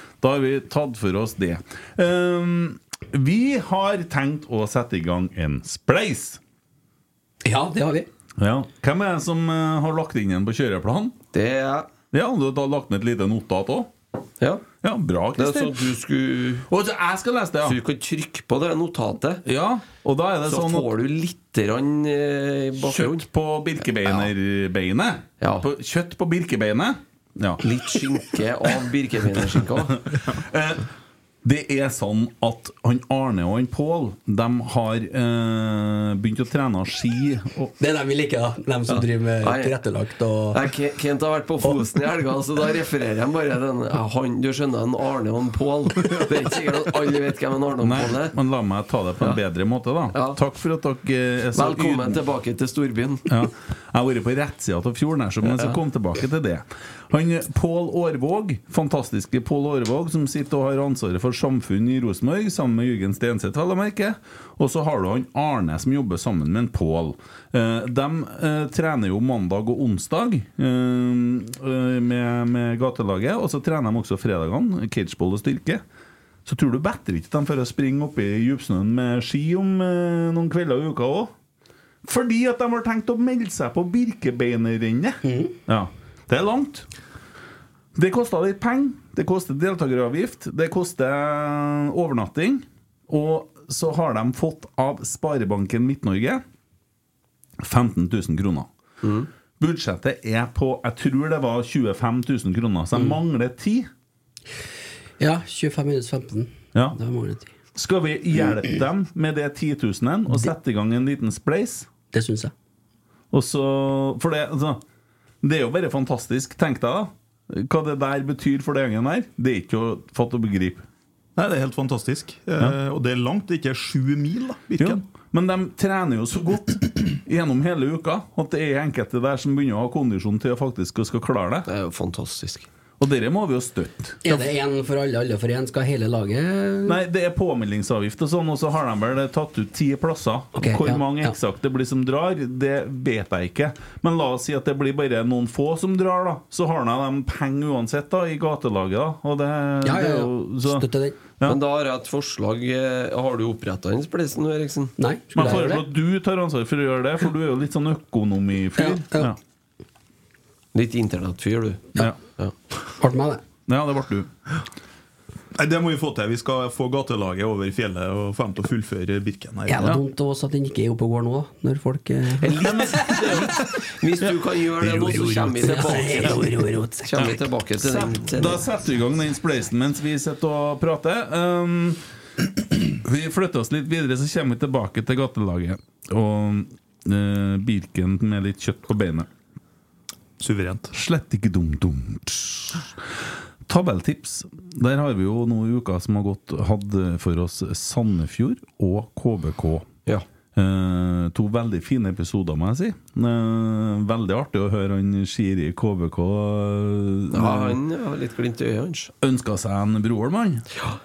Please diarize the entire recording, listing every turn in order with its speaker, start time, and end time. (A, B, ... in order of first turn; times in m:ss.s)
0:00.2-0:06.4 A
0:07.4-0:08.1 B
0:08.4-0:11.2 A
0:11.3-0:11.9 C
0:12.1-0:13.9 A
0:14.4-0:14.6 C
0:14.8-0:15.8 A
0:15.4-0:16.7 C
0:16.7-0:17.8 A
0:17.6-0:19.4 C
0:19.4-0:20.9 A
0:20.4-0:23.2 C
0:22.8-0:27.6 A
0:24.0-0:24.3 C
0:25.4-0:25.6 C
0:27.6-0:30.0 C
0:30.1-0:30.8 A
0:31.4-0:37.7 A
0:37.8-0:40.6 B
0:38.9-0:39.8 C
0:40.5-0:48.3 C
0:47.8-0:52.2 A
0:50.1-0:50.4 C
0:51.5-0:53.2 C
0:53.3-1:15.8 A
0:55.4-0:55.8 C
1:16.4-1:21.3 A
1:22.0-1:26.9 A
1:25.2-1:25.5 B
1:27.9-1:36.4 A
1:37.6-1:38.7 A
1:39.0-1:39.3 C
1:39.6-1:43.9 A
1:45.2-1:47.5 B
1:47.7-1:51.9 A
1:52.1-1:52.5 B
1:53.3-1:54.8 A
1:55.4-2:00.8 A
2:01.4-2:05.0 D
2:04.8-2:11.7 A
2:11.6-2:12.7 C
2:13.0-2:14.2 A
2:14.2-2:17.0 B
2:16.8-2:30.8 A
2:20.6-2:21.4 B
2:29.8-2:31.2 B
2:31.4-2:34.9 C
2:35.0-2:35.9 B
2:35.3-2:39.4 A
2:38.8-2:39.3 B
2:40.7-2:42.5 C
2:43.0-2:43.4 B
2:43.7-2:44.3 A
2:45.5-2:49.9 D
2:49.7-2:52.7 B
2:52.4-2:56.5 C
2:52.6-2:53.2 A
2:54.8-2:55.8 D
2:55.6-2:57.1 B
2:57.0-2:58.6 C
2:57.2-3:02.0 A
3:02.7-3:09.3 A
3:10.4-3:10.9 D
3:10.9-3:12.9 A
3:13.7-3:19.9 A
3:20.5-3:27.8 A
3:27.3-3:29.1 C
3:29.2-3:30.6 A